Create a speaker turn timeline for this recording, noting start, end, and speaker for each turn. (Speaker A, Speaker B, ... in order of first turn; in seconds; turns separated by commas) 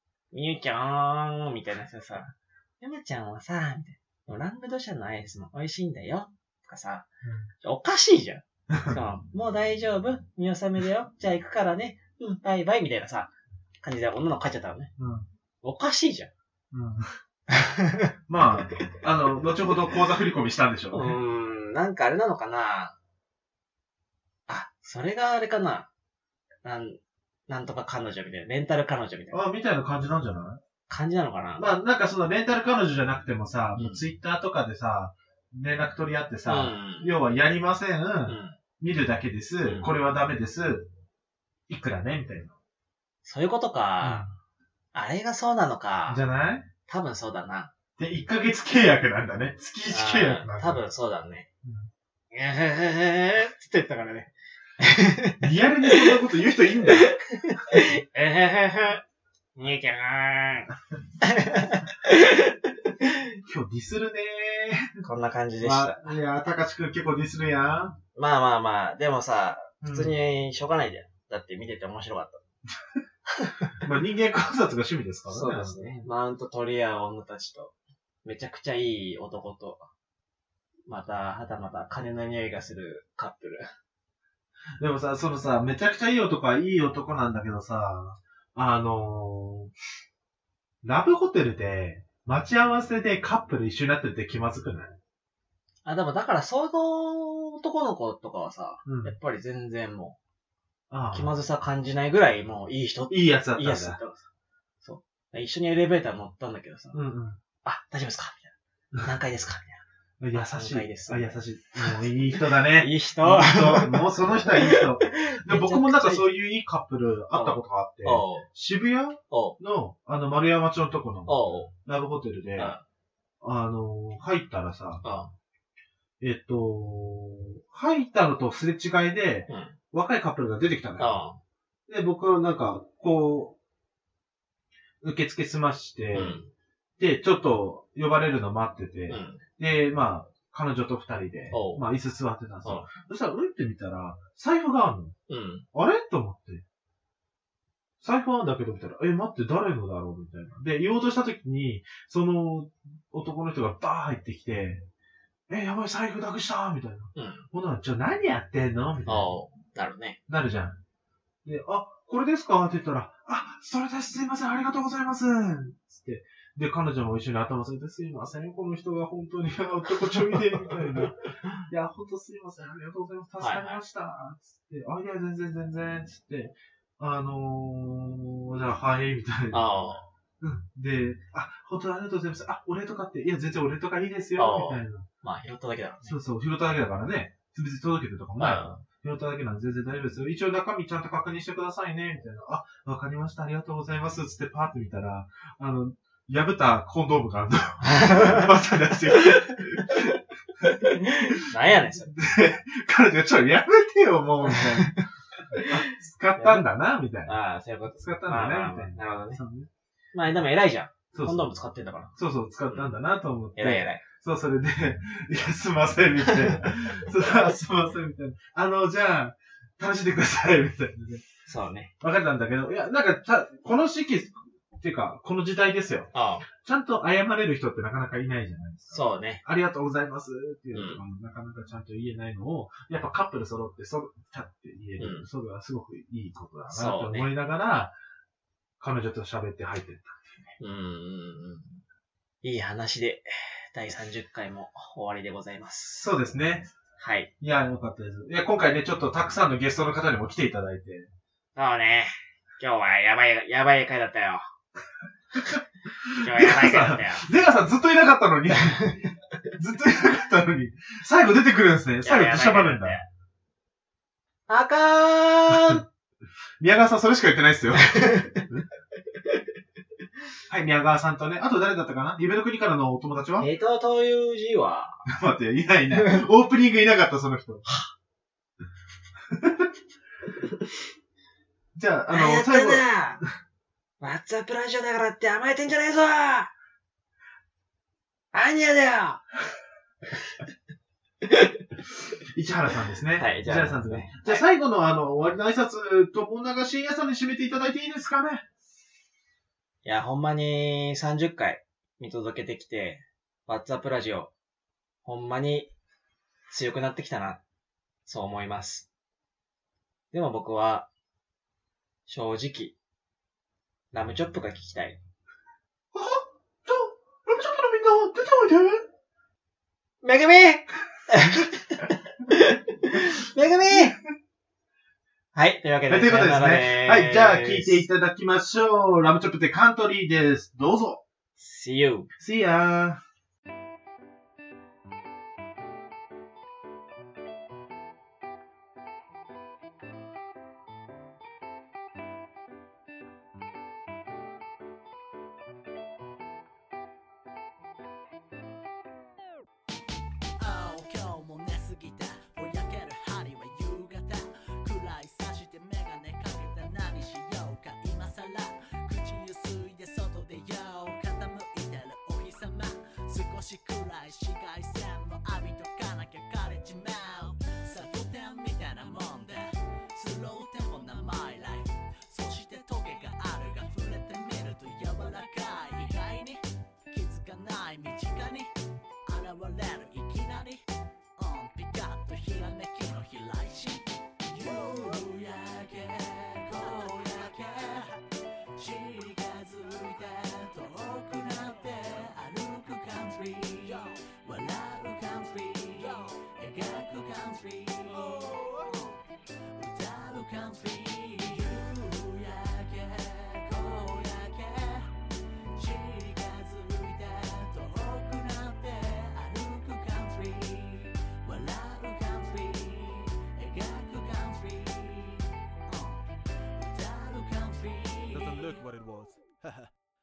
Speaker A: 0.3-7.1, Speaker B: 7.2-7.5, Speaker A: 7.6-13.3, Speaker B: 8.7-9.0, Speaker A: 13.8-14.9, Speaker B: 15.0-15.3, Speaker A: 15.6-16.3, Speaker B: 16.7-17.1, Speaker A: 17.5-18.1, Speaker B: 18.3-21.2, Speaker A: 20.9-22.9, Speaker A: 24.5-25.9, Speaker A: 26.6-29.4, Speaker B: 29.3-30.6, Speaker A: 30.9-31.7, Speaker B: 31.6-40.9, Speaker A: 33.8-34.1, Speaker A: 36.5-37.1, Speaker A: 38.3-38.6, Speaker A: 39.6-39.9, Speaker B: 41.7-42.5, Speaker A: 43.2-44.3, Speaker B: 44.0-44.3, Speaker A: 44.9-46.2, Speaker B: 46.1-46.7, Speaker A: 46.9-47.7, Speaker B: 48.0-50.8, Speaker A: 49.9-51.5, Speaker B: 51.6-51.9, Speaker A: 52.3-56.2, Speaker B: 55.4-57.1, Speaker A: 56.9-59.0, Speaker A: 59.6-63.4, Speaker B: 63.5-65.0, Speaker A: 65.0-66.2, Speaker B: 65.6-68.0, Speaker A: 68.2-72.4, Speaker B: 69.8-70.2, Speaker A: 73.3-73.9, Speaker B: 73.8-76.1, Speaker A: 75.3-77.7, Speaker A: 78.2-79.9, Speaker A: 80.9-83.7, Speaker B: 84.8-89.7, Speaker B: 90.8-95.0, Speaker A: 95.8-100.2, Speaker B: 98.8-99.2, Speaker B: 100.9-101.3, Speaker A: 101.1-104.2, Speaker B: 103.1-104.0, Speaker A: 104.8-107.0, Speaker B: 106.9-107.4, Speaker A: 107.6-109.8, Speaker B: 110.2-122.8, Speaker A: 110.3-111.9, Speaker A: 112.5-116.3, Speaker A: 117.3-118.5, Speaker A: 119.3-119.6, Speaker A: 121.3-121.7, Speaker A: 122.6-122.8, Speaker B: 123.4-125.0, Speaker A: 125.0-125.3, Speaker B: 126.2-131.1, Speaker A: 129.5-129.8, Speaker A: 131.0-131.4, Speaker B: 131.9-133.6, Speaker B: 135.0-136.4, Speaker A: 136.1-136.5, Speaker B: 137.0-145.2, Speaker A: 139.1-139.4, Speaker A: 141.5-141.9, Speaker A: 142.6-142.9, Speaker A: 145.3-145.7, Speaker B: 145.7-146.6, Speaker B: 148.0-154.9, Speaker B: 155.5-159.3, Speaker A: 157.2-157.5, Speaker A: 159.1-160.2, Speaker B: 160.3-160.8, Speaker B: 161.4-179.7, Speaker A: 169.9-171.6, Speaker A: 173.4-173.8, Speaker A: 179.5-180.1, Speaker B: 180.4-185.1, Speaker A: 184.4-186.2, Speaker B: 186.1-201.5, Speaker A: 188.4-188.8, Speaker A: 197.8-198.4, Speaker A: 199.3-200.0, Speaker A: 200.9-202.2, Speaker B: 202.1-205.0, Speaker A: 204.4-206.7, Speaker B: 205.6-207.3, Speaker A: 207.3-209.4, Speaker B: 208.0-209.7, Speaker A: 210.1-212.1, Speaker B: 211.1-211.5, Speaker B: 212.2-221.2, Speaker A: 213.6-214.0, Speaker A: 216.5-217.1, Speaker A: 221.5-221.9, Speaker B: 222.0-237.9, Speaker A: 226.1-226.5, Speaker A: 228.9-229.4, Speaker A: 230.7-231.0, Speaker A: 235.0-235.3, Speaker A: 236.7-237.3, Speaker B: 238.8-240.6, Speaker A: 240.6-241.8, Speaker A: 242.4-246.0, Speaker B: 245.9-246.7, Speaker A: 247.0-247.3, Speaker B: 247.4-251.1, Speaker A: 251.6-254.4, Speaker B: 255.4-263.0, Speaker A: 256.2-257.3, Speaker A: 262.0-263.1, Speaker A: 264.5-265.9, Speaker B: 265.5-265.8, Speaker B: 266.6-268.6, Speaker A: 267.9-268.4, Speaker B: 270.5-273.5, Speaker A: 273.4-275.0, Speaker B: 275.1-277.6, Speaker A: 275.9-276.2, Speaker B: 279.3-279.7, Speaker B: 281.8-282.9, Speaker A: 282.1-283.2, Speaker A: 284.0-286.5, Speaker A: 288.3-289.2, Speaker A: 291.2-291.7, Speaker B: 292.3-298.4, Speaker A: 293.2-294.5, Speaker A: 299.8-304.3, Speaker A: 305.0-305.7, Speaker A: 306.5-307.4, Speaker A: 308.1-308.9, Speaker A: 310.1-310.9, Speaker A: 312.1-312.8, Speaker A: 313.9-315.0, Speaker B: 315.9-318.9, Speaker A: 320.0-324.0, Speaker A: 325.3-327.9, Speaker B: 325.9-331.0, Speaker A: 331.4-332.1, Speaker B: 332.2-333.0, Speaker C: 350.4-378.5, Speaker C: 379.1-380.6, Speaker C: 381.2-388.0, Speaker D: 384.4-385.0, Speaker C: 388.6-404.9, Speaker D: 397.9-398.7, Speaker C: 405.6-416.0, Speaker C: 416.6-418.6, Speaker D: 418.1-419.7